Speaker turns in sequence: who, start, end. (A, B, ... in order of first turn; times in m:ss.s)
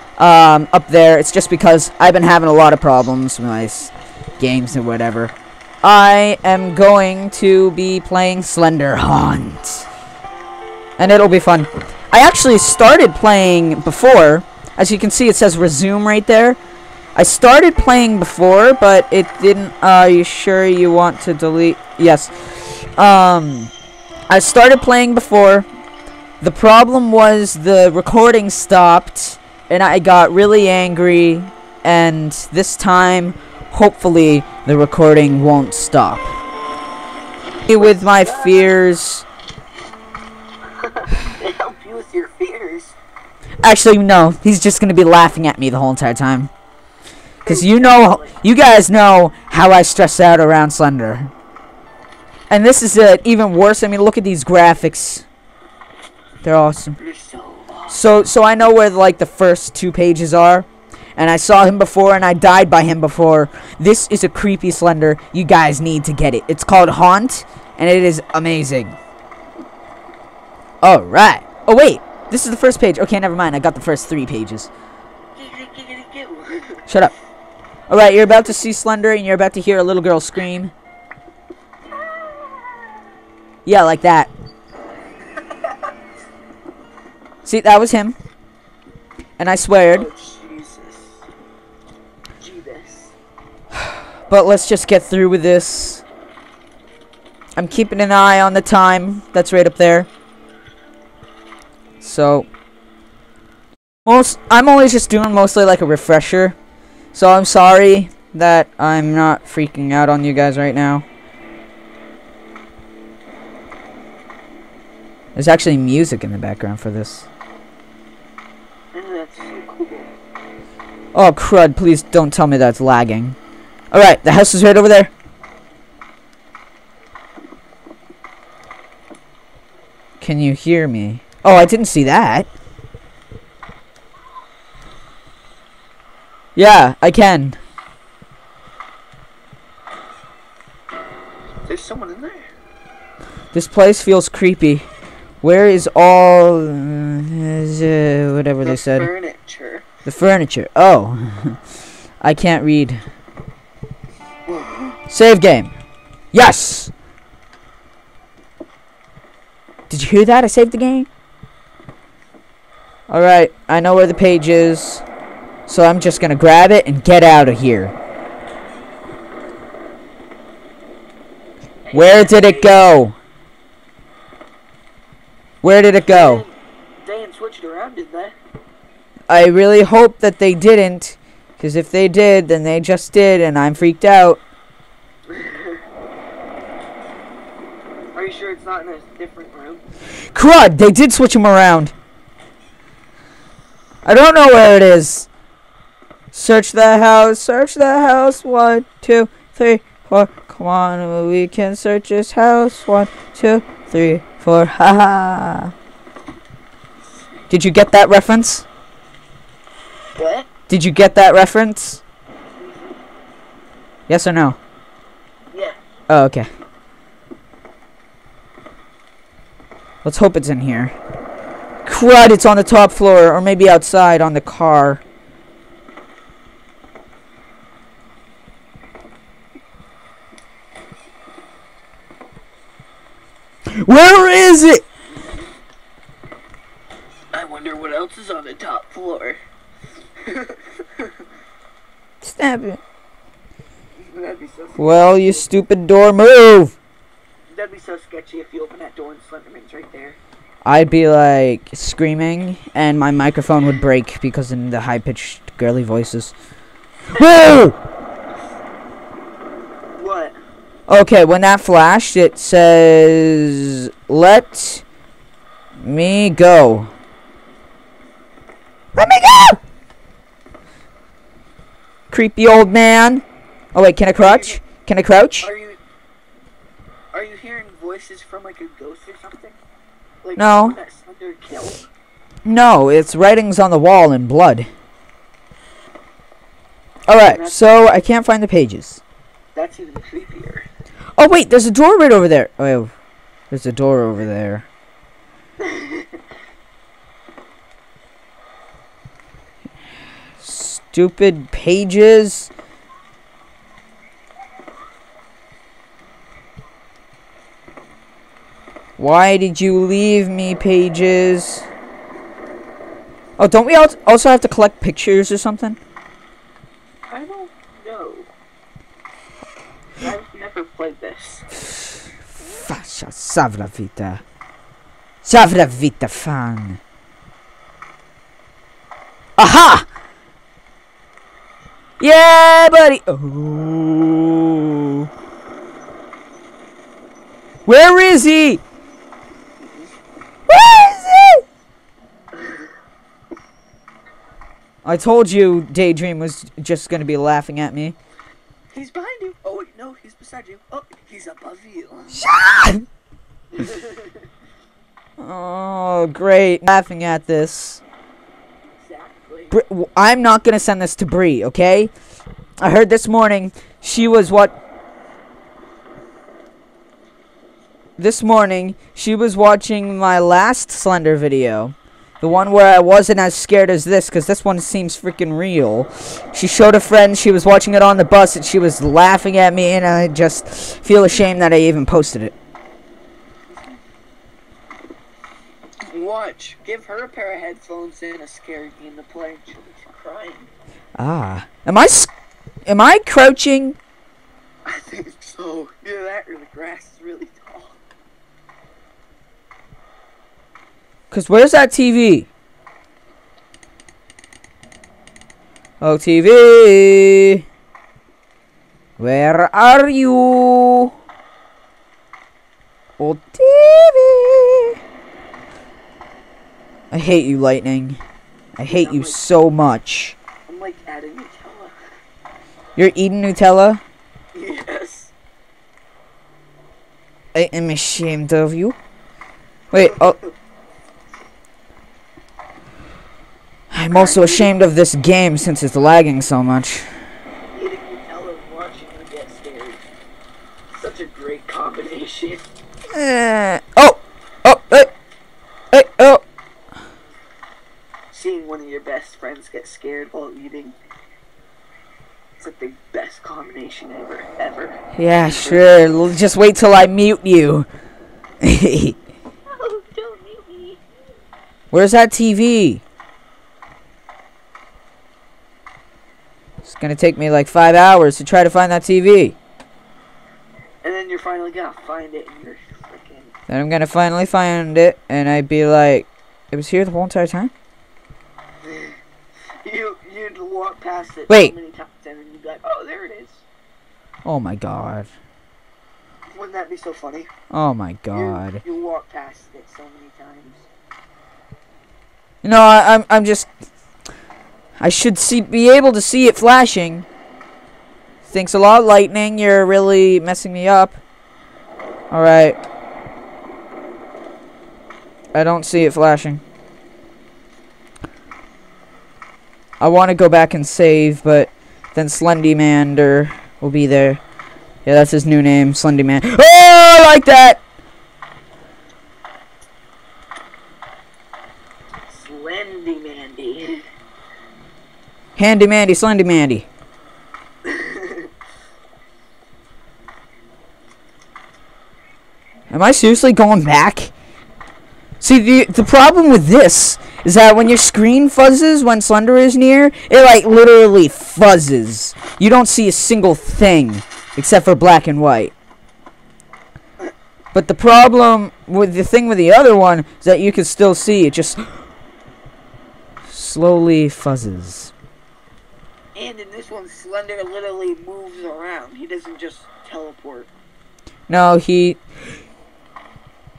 0:00.2-0:09.9 A
0:11.0-0:16.6 A
0:17.2-0:23.7 A
0:24.3-0:25.7 A
0:26.4-0:36.3 A
0:37.7-0:38.8 B
0:37.7-0:39.3 A
0:40.8-0:43.0 B
0:43.6-0:46.5 A
0:47.4-0:48.4 B
0:47.4-0:51.3 A
0:52.5-0:55.3 A
0:56.4-0:57.0 A
0:57.0-0:58.0 B
0:57.9-1:09.0 A
1:10.8-1:14.7 A
1:15.4-1:16.8 B
1:16.9-1:17.1 A
1:17.9-1:20.7 A
1:21.9-1:23.0 B
1:23.6-1:24.3 A
1:27.4-1:28.2 A
1:29.4-1:30.1 A
1:29.9-1:31.2 B
1:32.4-1:33.1 B
1:33.8-1:36.0 A
1:37.6-1:40.1 A
1:42.0-1:42.5 A
1:44.0-1:46.6 A
1:47.1-1:51.0 A
1:55.4-1:57.3 A
1:58.9-2:00.1 B
2:01.1-2:03.4 A
2:03.9-2:05.1 A
2:10.2-2:12.5 A
2:16.6-2:17.6 A
2:21.7-2:22.5 B
2:23.5-2:24.9 A
2:25.4-2:29.1 A
2:28.6-2:29.9 B
2:30.0-2:31.6 A
2:32.2-2:33.0 A
2:34.5-2:35.0 B
2:35.1-2:35.7 A
2:36.3-2:36.9 A
2:39.9-2:41.1 A
2:43.1-2:45.0 A
2:45.7-2:47.9 A
2:51.9-2:52.8 B
2:51.9-2:53.2 A
2:55.6-2:56.4 A
2:56.0-2:58.4 B
2:59.3-3:04.4 A
3:05.3-3:05.8 B
3:08.1-3:09.8 B
3:10.3-3:11.9 A
3:14.0-3:15.3 A
3:16.3-3:25.7 A
3:27.5-3:28.6 A
3:30.2-3:30.5 B
3:30.7-3:32.0 A
3:32.6-3:33.0 B
3:34.1-3:34.6 A
3:35.5-3:35.8 B
3:36.1-3:36.5 A
3:40.0-3:40.9 A
3:41.8-3:45.0 A
3:53.7-3:54.8 A
3:57.3-3:59.4 B
4:00.2-4:01.1 B
4:02.2-4:02.8 A
4:04.0-4:05.6 B
4:04.8-4:06.8 A
4:07.5-4:10.2 B
4:10.6-4:16.3 A
4:17.1-4:17.8 A
4:20.0-4:20.4 B
4:20.9-4:24.8 A
4:25.8-4:26.9 A
4:29.0-4:29.6 A
4:32.1-4:35.5 A
4:34.2-4:34.6 B
4:35.4-4:35.8 B
4:37.1-4:39.6 B
4:40.2-4:41.8 B
4:40.4-4:40.8 A
4:42.4-4:44.7 A
4:47.1-4:49.0 A
4:47.2-4:47.8 B
4:49.5-4:50.7 B
4:51.2-4:52.9 A
4:53.5-4:54.7 A
4:55.6-4:56.1 B
5:00.4-5:02.5 A
5:09.0-5:11.7 A
5:13.4-5:15.8 A
5:17.1-5:18.3 B
5:20.0-5:21.6 B
5:22.3-5:24.2 A
5:25.2-5:26.8 A
5:29.4-5:29.9 A
5:32.0-5:35.1 A
5:37.7-5:38.6 A
5:39.6-5:39.9 B
5:40.5-5:41.4 A
5:44.8-5:48.0 A
5:48.7-5:52.3 B
5:52.1-5:52.8 A
5:53.5-5:54.2 B
5:55.2-5:57.8 A
5:58.7-5:59.6 B
5:59.5-6:01.9 A
6:02.6-6:04.6 A
6:08.0-6:22.3 A
6:23.5-6:23.8 B
6:25.9-6:30.5 B
6:31.0-6:32.1 A
6:32.7-6:33.8 A
6:34.6-6:37.8 B
6:41.1-6:42.3 A
6:45.8-6:47.4 A
6:49.0-6:50.9 A
6:53.0-6:54.8 A
6:56.9-6:58.0 A
6:58.6-7:00.2 A
6:58.7-6:59.2 B
7:00.5-7:01.7 B
7:02.8-7:03.8 A
7:04.3-7:05.1 B
7:07.3-7:08.8 A
7:09.7-7:10.2 A
7:13.7-7:16.9 A
7:13.9-7:14.5 B
7:17.5-7:19.8 B
7:20.7-7:22.5 B
7:22.9-7:24.9 A
7:25.7-7:26.2 A
7:28.1-7:30.8 B
7:32.4-7:35.8 B
7:35.0-7:37.7 A
7:38.4-7:39.0 A
7:39.5-7:40.8 B
7:41.7-7:42.8 A
7:46.6-7:49.4 A
7:50.8-7:53.3 B
7:53.5-7:57.5 A
7:58.6-7:59.0 B
7:59.6-8:03.4 B
8:04.2-8:05.1 A
8:06.3-8:07.3 B
8:07.5-8:08.6 A
8:08.1-8:10.7 B
8:12.4-8:13.5 A
8:14.8-8:17.1 A
8:18.2-8:21.0 A
8:22.1-8:22.6 A
8:25.3-8:26.4 A
8:29.8-8:34.2 A
8:34.9-8:37.6 A
8:42.1-8:43.8 B
8:45.4-8:46.7 A
8:47.6-8:48.2 B
8:52.7-8:54.1 A
8:55.2-9:05.5 A
9:07.5-9:11.8 A
9:13.3-9:14.9 A
9:16.2-9:20.5 B
9:21.3-9:22.0 A